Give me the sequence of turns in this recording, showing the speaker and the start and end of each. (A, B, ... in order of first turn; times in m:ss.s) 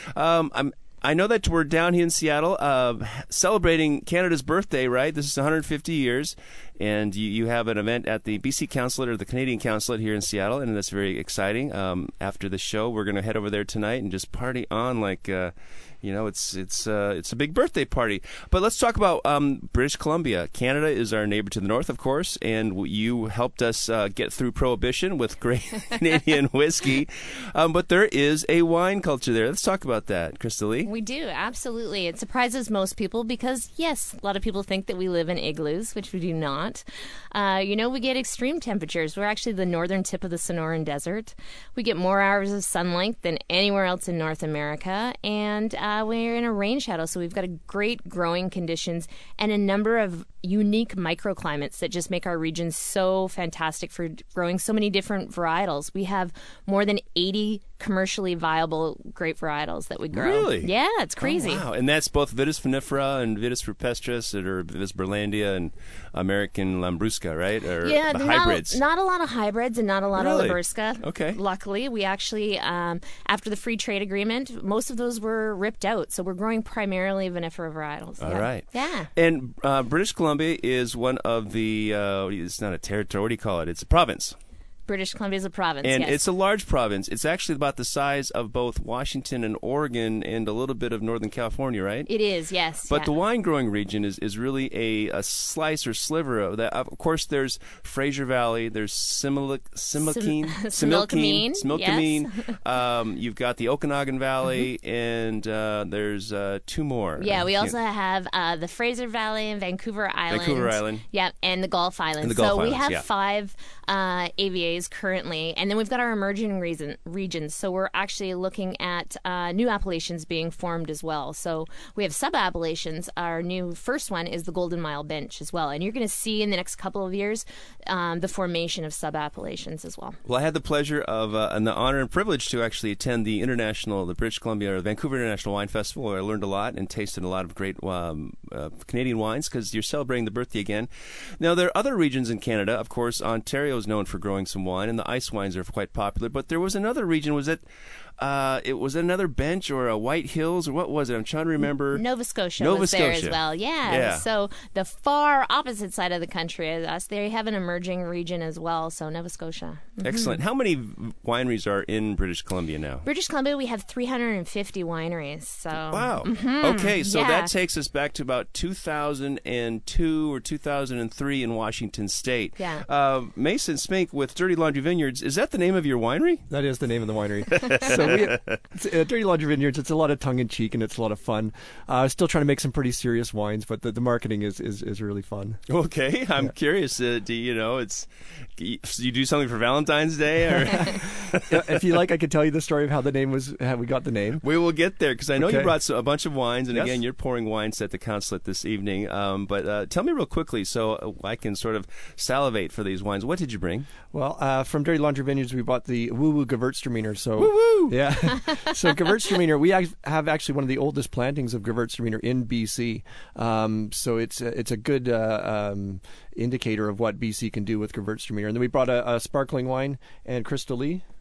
0:00.1-0:30.9 A
0:30.8-1:01.6 B
1:00.1-1:08.8 A
1:07.8-1:19.1 B
1:10.2-1:11.4 A
1:18.2-1:24.4 A
1:24.9-1:26.2 B
1:25.8-1:32.1 A
1:32.1-1:33.1 B
1:32.9-1:47.7 A
1:40.0-1:42.6 B
1:47.2-2:10.2 B
1:50.3-1:51.0 A
1:52.2-1:53.0 A
2:10.3-2:27.6 A
2:28.2-2:32.0 A
2:31.9-2:40.4 B
2:32.6-2:34.2 A
2:40.0-2:43.1 A
2:43.0-2:47.5 B
2:45.9-2:56.5 A
2:52.6-2:52.8 B
2:56.5-3:05.6 C
2:57.5-2:58.6 A
3:05.7-3:11.7 A
3:10.5-3:14.4 C
3:14.4-3:23.9 A
3:15.4-3:15.7 C
3:16.7-3:17.0 C
3:24.1-3:41.0 C
3:27.4-3:28.0 A